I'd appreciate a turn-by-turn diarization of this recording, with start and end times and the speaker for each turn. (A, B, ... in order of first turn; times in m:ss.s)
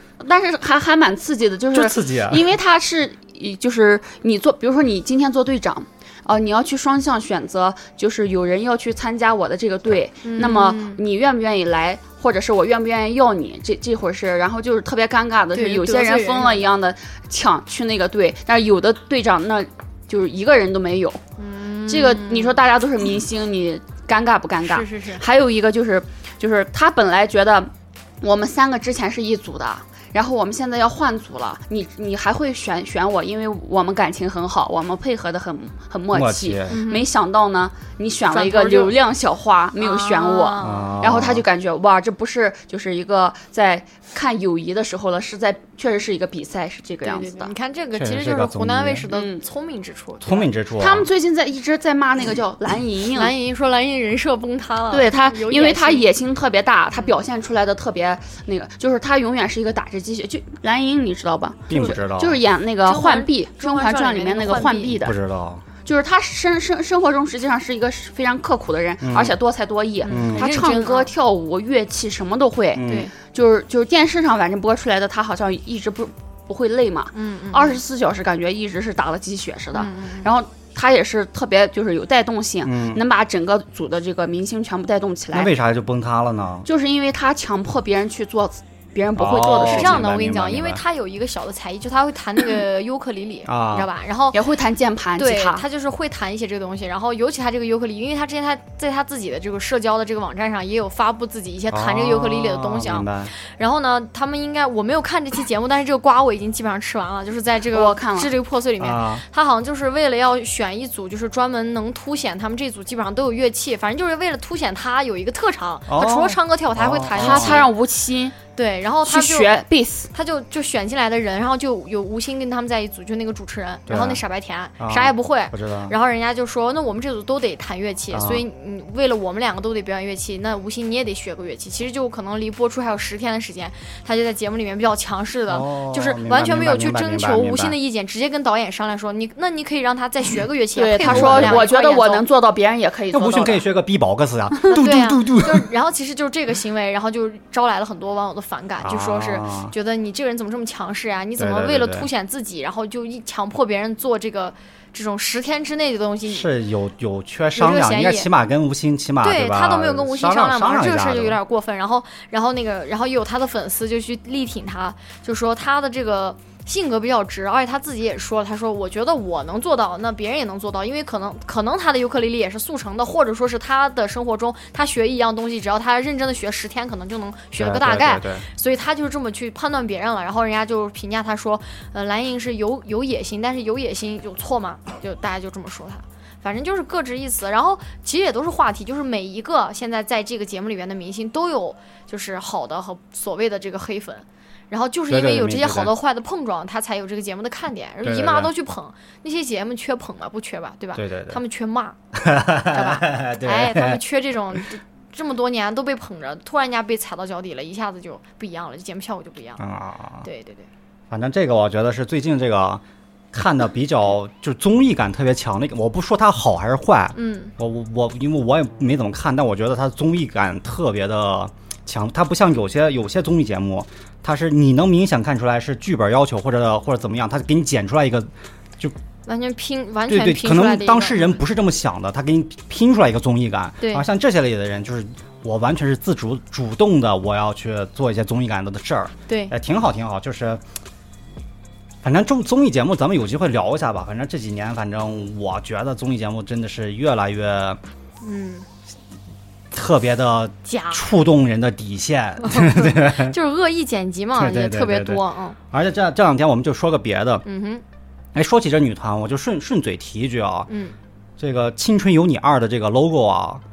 0:00.2-0:21.2 A
0:01.7-0:02.5 B
0:10.2-0:11.0 C
0:15.5-0:16.7 C
0:21.4-0:22.6 C
0:21.9-0:47.5 A
0:24.6-0:25.2 C
0:36.1-0:36.8 B
0:36.7-0:37.1 C
0:38.3-0:39.0 C
0:39.8-0:40.9 C
0:40.6-0:41.5 B
0:47.0-0:50.5 C
0:47.9-0:49.1 B
0:49.1-0:49.4 A
0:50.2-0:51.1 B
0:50.8-0:53.3 A
0:53.2-0:56.1 C
0:54.9-1:05.2 A
0:56.9-0:57.2 C
1:01.7-1:02.4 B
1:02.8-1:05.0 C
1:05.0-1:05.6 B
1:05.8-1:25.5 A
1:09.0-1:09.4 B
1:10.1-1:11.1 C
1:10.1-1:10.5 B
1:12.8-1:13.1 B
1:12.8-1:13.1 C
1:17.1-1:17.8 C
1:19.8-1:20.3 C
1:22.6-1:23.0 B
1:25.3-1:26.7 B
1:26.7-1:30.0 A
1:29.2-1:30.8 B
1:29.5-1:34.4 C
1:33.5-1:33.9 B
1:34.3-1:35.6 A
1:35.2-1:57.7 C
1:41.7-1:43.3 B
1:47.7-1:48.3 A
1:48.8-1:49.2 B
1:55.9-1:57.7 B
1:57.2-1:58.4 A
1:58.6-1:59.5 C
1:59.0-2:00.1 A
2:00.1-2:22.2 C
2:03.9-2:04.2 B
2:04.8-2:05.9 B
2:08.1-2:08.4 B
2:15.5-2:17.8 B
2:20.8-2:23.6 A
2:21.0-2:21.7 B
2:23.1-2:25.7 B
2:24.7-2:36.5 C
2:28.8-2:29.7 B
2:31.4-2:32.1 B
2:36.3-2:41.4 B
2:37.6-2:38.3 C
2:39.2-3:22.0 C
2:57.6-2:58.5 B
3:15.1-3:15.9 B
3:18.0-3:18.5 B
3:21.0-3:21.4 B
3:22.1-3:24.0 B
3:22.7-3:29.6 C
3:29.6-3:30.3 B
3:30.2-3:30.7 C
3:31.1-3:49.0 B
3:37.1-3:37.5 C
3:49.3-3:51.4 C
3:50.1-4:00.6 B
4:02.0-4:07.8 B
4:08.2-4:08.7 C
4:09.7-4:13.4 B
4:10.7-4:11.0 C
4:12.4-4:15.6 C
4:14.4-4:17.4 B
4:17.4-4:17.8 C
4:18.3-4:20.7 B
4:20.7-4:21.0 C
4:21.4-4:23.6 B